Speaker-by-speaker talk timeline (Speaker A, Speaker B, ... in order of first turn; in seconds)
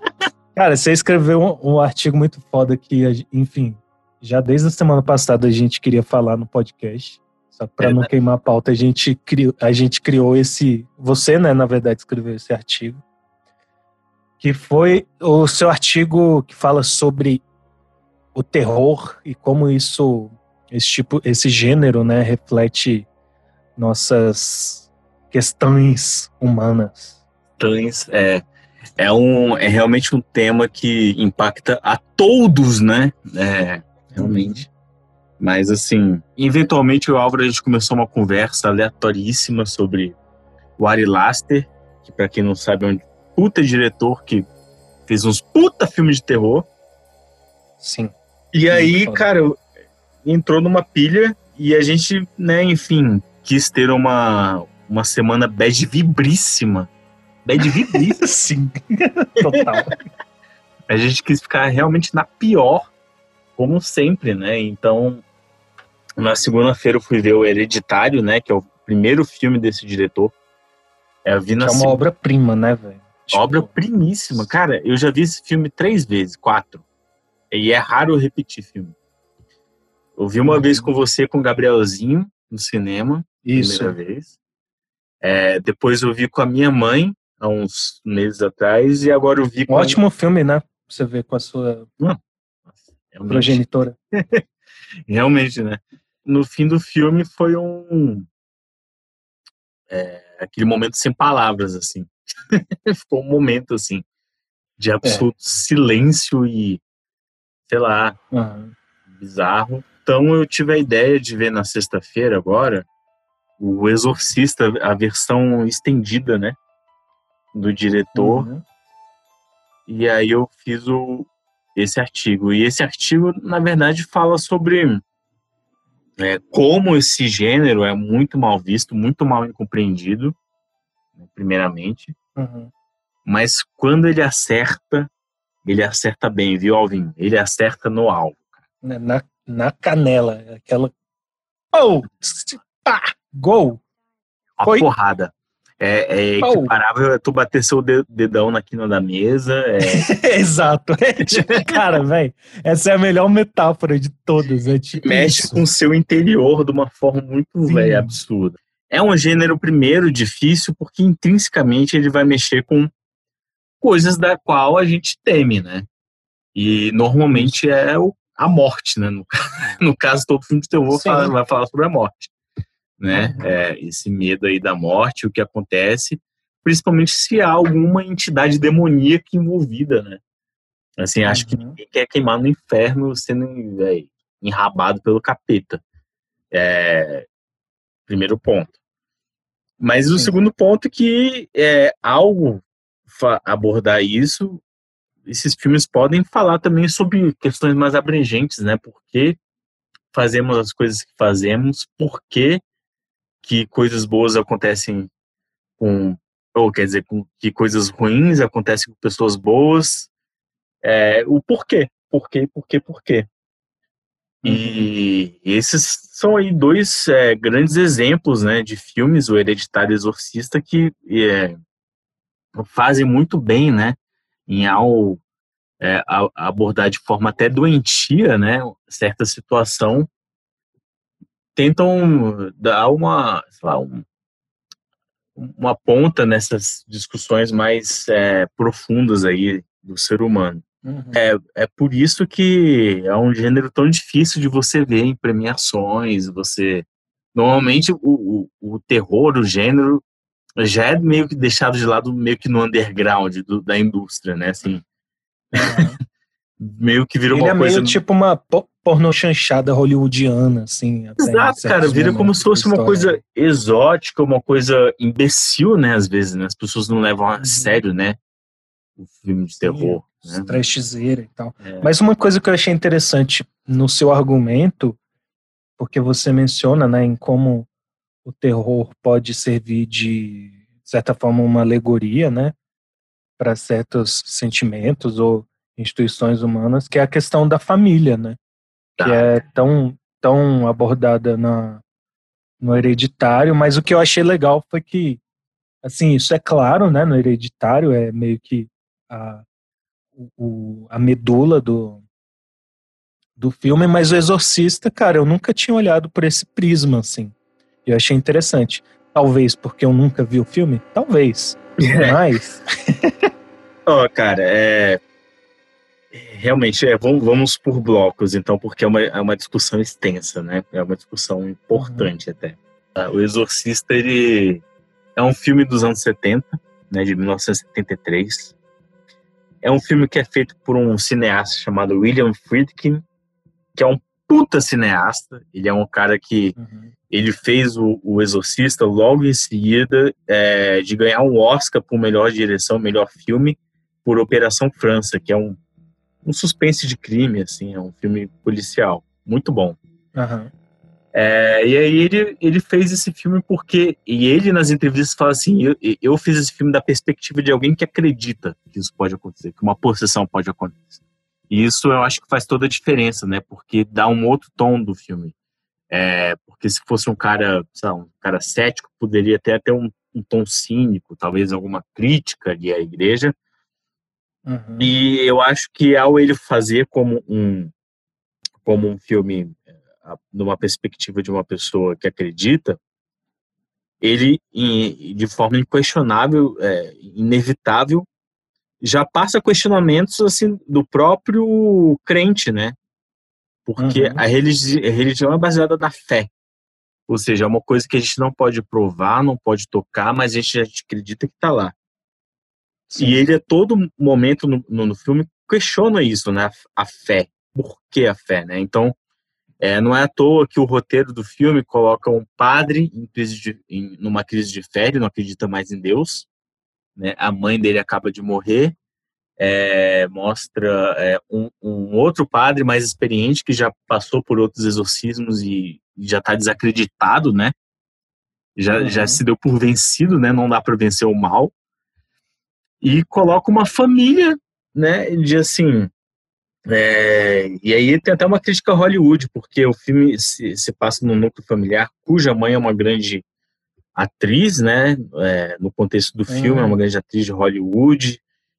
Speaker A: 0.5-13.0, 14.4-17.4, 18.3-23.1, 23.8-27.2, 34.1-34.6, 47.8-48.1, 48.7-49.2, 57.9-60.0, 71.6-73.7, 80.5-80.9, 83.4-84.0, 89.7-91.9, 93.3-93.9, 108.3-108.7, 118.2-118.6, 132.3-132.7, 138.8-140.9, 141.7-143.8, 146.4-146.7, 149.8-155.6, 157.7-158.1, 167.3-167.6, 170.9-171.3, 173.1-173.4, 181.3-181.8, 214.4-214.9, 240.8-241.2, 255.6-256.0, 257.3-263.2, 267.4-267.7, 269.6-275.0, 275.8-277.7, 278.2-282.5, 283.4-288.4, 289.0-291.8, 292.6-295.2, 295.8-299.4, 300.2-302.0, 303.4-307.3, 307.8-313.1, 321.7-322.1, 336.6-336.9, 350.1-350.5, 374.4-374.9, 393.8-394.2, 402.9-403.2, 428.8-429.2, 446.3-446.8
Speaker B: 7.8-8.1, 27.6-28.4, 29.0-34.7, 35.4-40.1, 40.8-44.5, 45.1-46.7, 48.5-49.6, 50.2-56.9, 57.4-58.2, 60.9-62.9, 63.6-65.2, 66.2-70.3, 71.2-72.0, 73.3-76.8, 77.5-78.9, 80.2-84.3, 85.2-90.0, 93.1-94.4, 95.1-98.3, 99.9-104.0, 104.8-106.8, 107.7-108.2, 109.1-112.8, 113.6-116.5, 117.5-118.5, 119.9-125.0, 126.2-130.3, 131.2-132.1, 133.2-135.1, 135.6-138.5, 144.6-150.1, 151.3-151.8, 155.0-162.9, 163.8-165.9, 166.5-172.3, 173.0-180.2, 181.0-185.8, 186.5-187.2, 188.1-188.7, 189.8-194.6, 195.2-199.4, 200.1-202.6, 203.4-205.1, 205.8-210.1, 210.8-213.3, 214.4-221.6, 222.5-225.2, 225.8-230.1, 231.6-234.0, 235.3-250.0, 250.6-254.8, 255.5-256.0, 256.6-258.0, 261.2-268.2, 269.0-270.6, 271.6-271.9, 289.0-289.4, 311.8-312.2, 313.9-315.0, 316.1-324.6, 325.1-328.5, 329.6-333.0, 333.7-336.6, 337.1-345.6, 346.2-349.8, 351.1-365.3, 365.9-373.3, 374.8-377.7, 378.6-382.8, 384.0-388.1, 388.8-392.8, 393.6-396.3, 397.1-401.7, 402.9-408.9, 409.6-416.3, 417.0-418.7, 419.4-427.5, 428.6-431.5, 432.8-435.9, 436.7-443.2, 443.9-448.2